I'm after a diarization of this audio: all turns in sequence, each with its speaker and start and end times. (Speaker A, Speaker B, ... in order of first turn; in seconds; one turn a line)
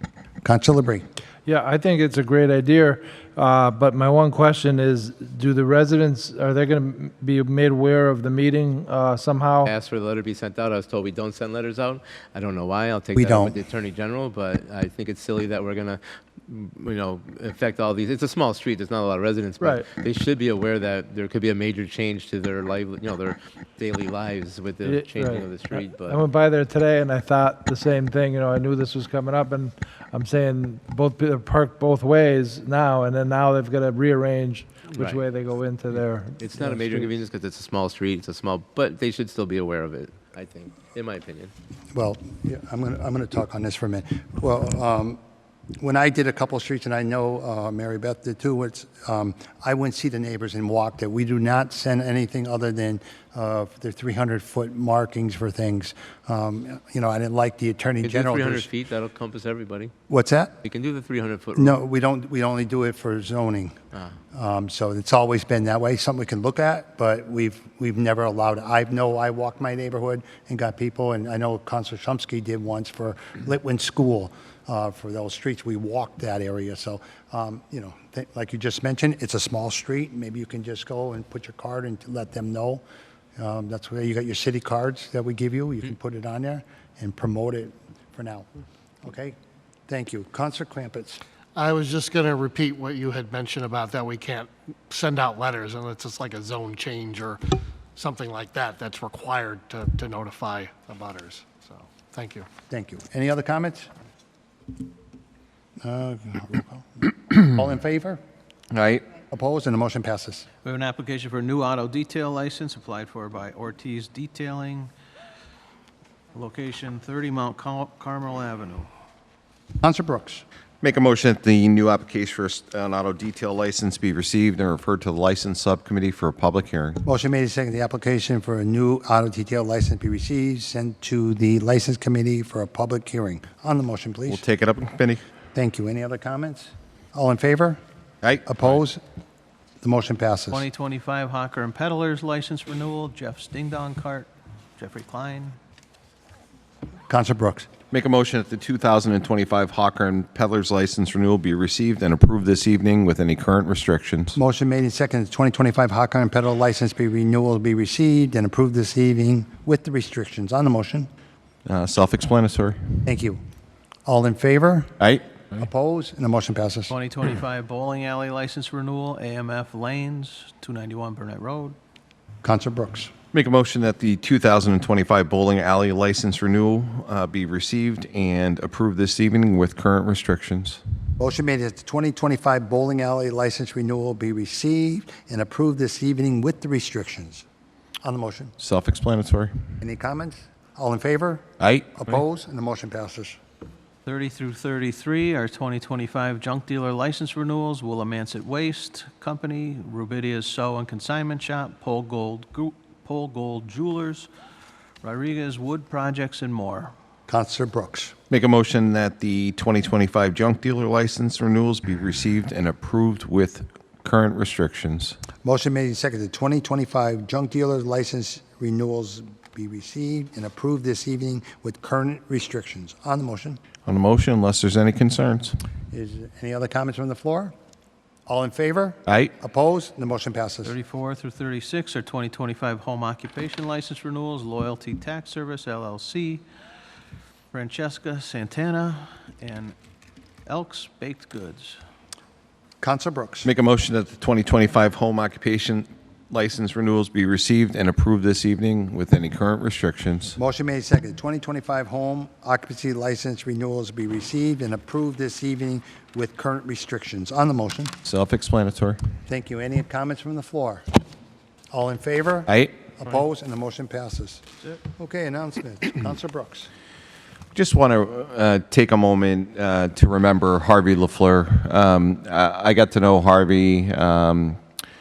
Speaker A: 0.4-1.1
Speaker B: 1.4-9.7
Speaker C: 9.6-26.2
Speaker A: 13.1-13.6
Speaker B: 19.6-19.9
Speaker B: 24.8-37.1
Speaker C: 34.9-35.2
Speaker C: 36.4-41.5
Speaker A: 41.9-45.2
Speaker A: 45.8-58.7
Speaker C: 58.0-59.9
Speaker A: 60.1-60.5
Speaker C: 60.6-61.8
Speaker A: 61.5-63.8
Speaker A: 64.3-82.8
Speaker A: 83.4-88.5
Speaker A: 89.0-89.3
Speaker A: 89.9-91.2
Speaker D: 91.5-97.4
Speaker D: 98.0-102.4
Speaker A: 102.7-103.9
Speaker A: 105.8-108.2
Speaker E: 108.7-109.0
Speaker A: 109.3-110.5
Speaker F: 110.6-114.9
Speaker F: 116.3-118.9
Speaker A: 119.8-120.4
Speaker E: 120.8-127.0
Speaker A: 127.0-134.4
Speaker E: 134.3-135.2
Speaker A: 135.5-137.8
Speaker A: 138.4-139.0
Speaker A: 139.8-140.6
Speaker F: 140.5-145.6
Speaker A: 147.1-147.7
Speaker E: 147.9-154.4
Speaker A: 154.3-161.1
Speaker E: 161.7-162.8
Speaker A: 163.1-163.4
Speaker A: 164.1-164.9
Speaker A: 165.6-166.9
Speaker F: 166.9-171.8
Speaker A: 172.4-173.1
Speaker E: 173.3-180.8
Speaker A: 181.2-187.4
Speaker A: 188.0-188.5
Speaker E: 188.6-189.5
Speaker A: 189.8-191.4
Speaker E: 191.6-191.9
Speaker A: 191.9-193.4
Speaker F: 194.1-204.3
Speaker F: 205.0-206.9
Speaker A: 207.3-208.1
Speaker E: 208.3-215.2
Speaker A: 215.4-223.6
Speaker E: 223.8-225.6
Speaker A: 225.9-227.5
Speaker A: 228.3-230.7
Speaker F: 230.6-236.4
Speaker F: 237.5-239.7
Speaker F: 240.5-241.8
Speaker A: 242.8-243.5
Speaker E: 243.4-250.3
Speaker A: 250.3-257.9
Speaker E: 258.0-259.0
Speaker A: 259.3-260.8
Speaker A: 261.7-264.4
Speaker E: 262.5-262.8
Speaker A: 265.0-266.7
Speaker E: 267.5-274.6